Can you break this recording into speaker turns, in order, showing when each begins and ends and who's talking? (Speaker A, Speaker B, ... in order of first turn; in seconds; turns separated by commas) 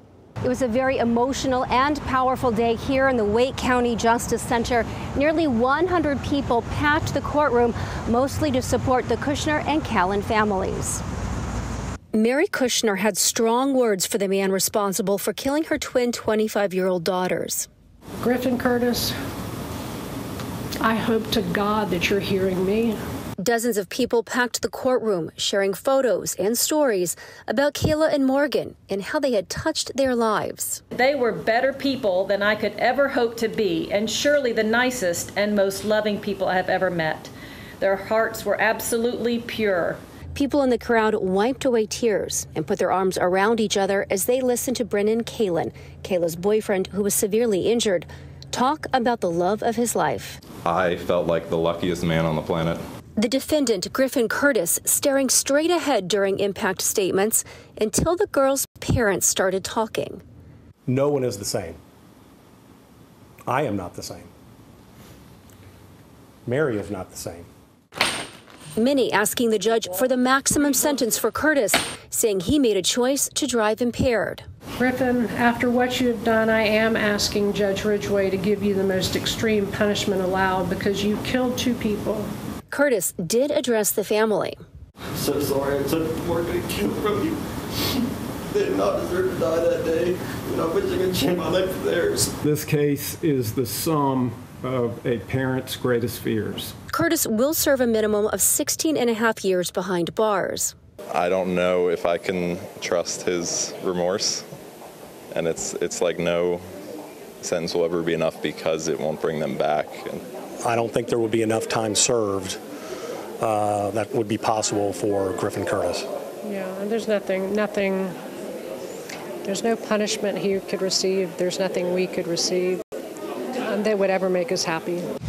Speaker A: 0.4-11.0, Speaker A: 12.1-17.7, Speaker B: 18.2-19.1, Speaker B: 20.8-23.0, Speaker A: 23.4-30.8, Speaker C: 30.9-40.0, Speaker A: 40.3-50.4, Speaker D: 50.6-52.8, Speaker A: 53.2-60.2, Speaker E: 60.9-61.8, Speaker E: 63.5-64.3, Speaker E: 66.5-67.5, Speaker A: 68.8-74.4, Speaker B: 74.8-82.3, Speaker A: 82.7-84.6, Speaker F: 85.2-87.4, Speaker F: 88.0-92.4, Speaker G: 92.4-96.8, Speaker A: 96.9-100.7, Speaker D: 101.1-104.4, Speaker D: 105.3-106.6, Speaker D: 107.4-110.2, Speaker E: 110.6-112.6, Speaker E: 113.4-116.1, Speaker B: 116.4-118.2, Speaker B: 119.5-122.8, Speaker B: 123.6-125.1